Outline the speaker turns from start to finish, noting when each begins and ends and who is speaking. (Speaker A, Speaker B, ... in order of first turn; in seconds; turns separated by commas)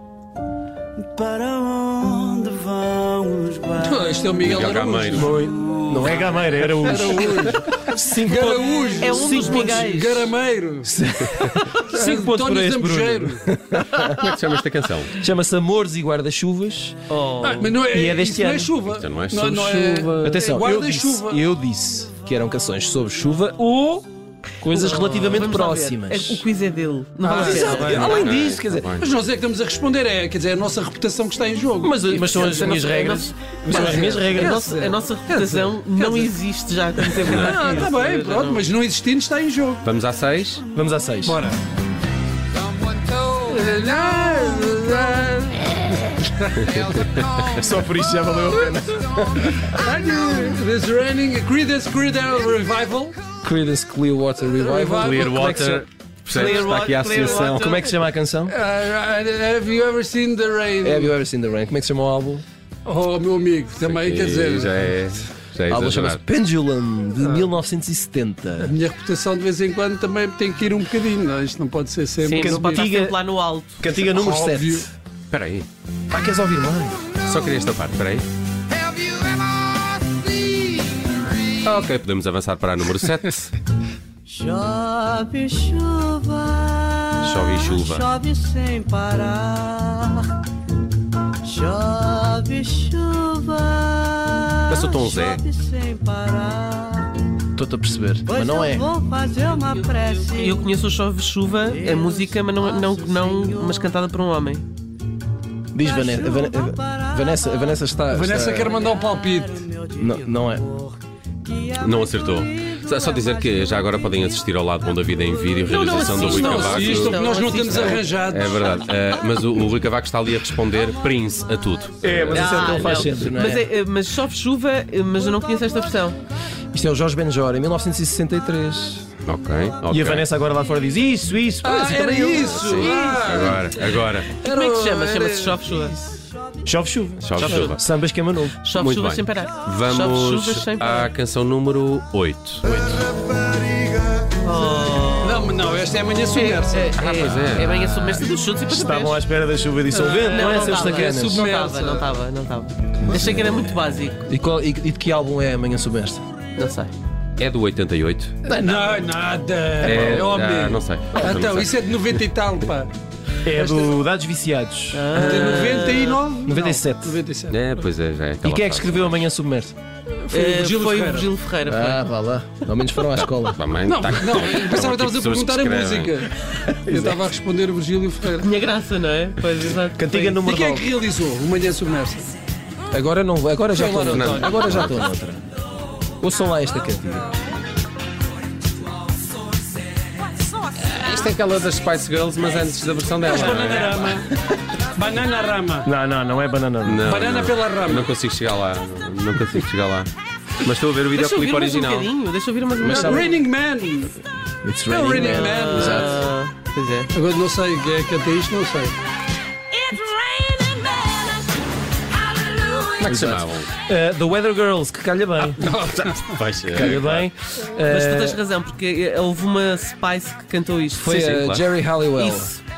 Speaker A: 1.1-3.7, Speaker B: 3.8-10.9, Speaker C: 4.4-5.4, Speaker D: 5.1-9.9, Speaker E: 9.0-10.3, Speaker D: 10.8-14.2, Speaker B: 11.9-13.5, Speaker C: 14.0-15.2, Speaker D: 15.1-17.1, Speaker E: 17.1-17.8, Speaker B: 17.4-21.4, Speaker D: 17.8-18.8, Speaker C: 18.9-19.6, Speaker D: 19.5-24.1, Speaker D: 24.6-26.5, Speaker E: 24.7-28.3, Speaker B: 27.2-28.2, Speaker D: 27.3-28.9, Speaker C: 27.9-29.1, Speaker B: 29.0-32.9, Speaker D: 31.8-34.9, Speaker E: 32.4-38.7, Speaker B: 33.7-36.3, Speaker B: 37.0-39.9, Speaker C: 37.2-37.6, Speaker C: 39.8-40.6, Speaker D: 40.7-41.4, Speaker B: 41.3-41.6, Speaker B: 42.9-53.2, Speaker D: 47.5-49.7, Speaker D: 53.4-55.9, Speaker B: 54.5-55.8, Speaker C: 55.0-57.8, Speaker E: 56.3-57.9, Speaker D: 56.4-58.6, Speaker B: 58.5-61.1, Speaker D: 60.8-62.4, Speaker B: 62.9-64.9, Speaker C: 63.8-66.2, Speaker D: 65.7-68.8, Speaker B: 67.2-67.5, Speaker B: 68.6-72.9, Speaker E: 72.2-73.8, Speaker D: 72.4-74.9, Speaker B: 74.0-74.9, Speaker C: 75.3-75.7, Speaker D: 76.1-77.1, Speaker C: 77.2-78.3, Speaker C: 81.6-83.5, Speaker A: 84.3-90.3, Speaker E: 84.9-85.2, Speaker C: 87.2-88.1, Speaker A: 91.5-97.1, Speaker C: 94.7-95.5, Speaker D: 97.6-98.9, Speaker A: 98.3-100.3, Speaker E: 99.6-104.7, Speaker A: 102.7-103.7, Speaker D: 105.7-108.9, Speaker B: 108.1-109.8, Speaker D: 110.0-110.7, Speaker C: 111.7-123.3, Speaker E: 115.7-118.1, Speaker B: 116.0-118.7, Speaker D: 122.0-123.7, Speaker E: 122.3-126.2, Speaker D: 126.7-129.1, Speaker C: 129.2-130.3, Speaker D: 129.9-132.9, Speaker B: 131.6-136.0, Speaker C: 132.3-134.4, Speaker E: 132.5-132.9, Speaker E: 134.4-136.0, Speaker D: 136.7-138.6, Speaker C: 137.2-137.8, Speaker E: 137.4-137.8, Speaker E: 138.6-141.1, Speaker C: 138.7-142.7, Speaker D: 142.6-143.1, Speaker E: 144.4-145.6, Speaker B: 145.2-147.4, Speaker E: 146.3-149.2, Speaker C: 146.9-148.2, Speaker D: 148.7-151.6, Speaker B: 149.9-152.1, Speaker E: 150.3-154.2, Speaker D: 153.0-156.2, Speaker E: 156.6-156.9, Speaker C: 157.4-158.3, Speaker D: 158.4-159.1, Speaker B: 158.5-162.9, Speaker C: 159.8-161.7, Speaker D: 159.8-160.3, Speaker D: 163.4-167.2, Speaker B: 163.5-164.0, Speaker E: 164.9-166.2, Speaker B: 165.1-167.7, Speaker C: 167.5-169.3, Speaker D: 168.4-169.8, Speaker B: 170.2-171.3, Speaker E: 170.3-172.1, Speaker D: 171.7-173.6, Speaker C: 173.1-176.3, Speaker B: 173.9-178.5, Speaker D: 176.5-177.3, Speaker E: 178.4-180.4, Speaker D: 180.0-180.9, Speaker B: 180.3-182.3, Speaker D: 182.9-185.4, Speaker B: 183.7-184.7, Speaker C: 184.0-184.9, Speaker D: 186.2-187.3, Speaker C: 190.8-194.2, Speaker B: 193.2-194.3, Speaker B: 194.8-195.9, Speaker D: 195.8-197.1, Speaker C: 196.8-202.1, Speaker B: 197.0-198.1, Speaker E: 201.1-203.3, Speaker D: 202.8-203.3, Speaker B: 202.8-204.2, Speaker D: 204.6-206.2, Speaker B: 204.9-206.2, Speaker E: 205.3-207.1, Speaker B: 207.1-208.9, Speaker E: 209.9-211.2, Speaker E: 212.6-212.9, Speaker C: 213.0-213.7, Speaker D: 213.0-215.7, Speaker B: 215.6-216.4, Speaker C: 215.6-217.3, Speaker D: 216.7-218.4, Speaker E: 217.8-221.6, Speaker D: 221.0-222.5, Speaker C: 221.3-221.6, Speaker E: 222.2-222.6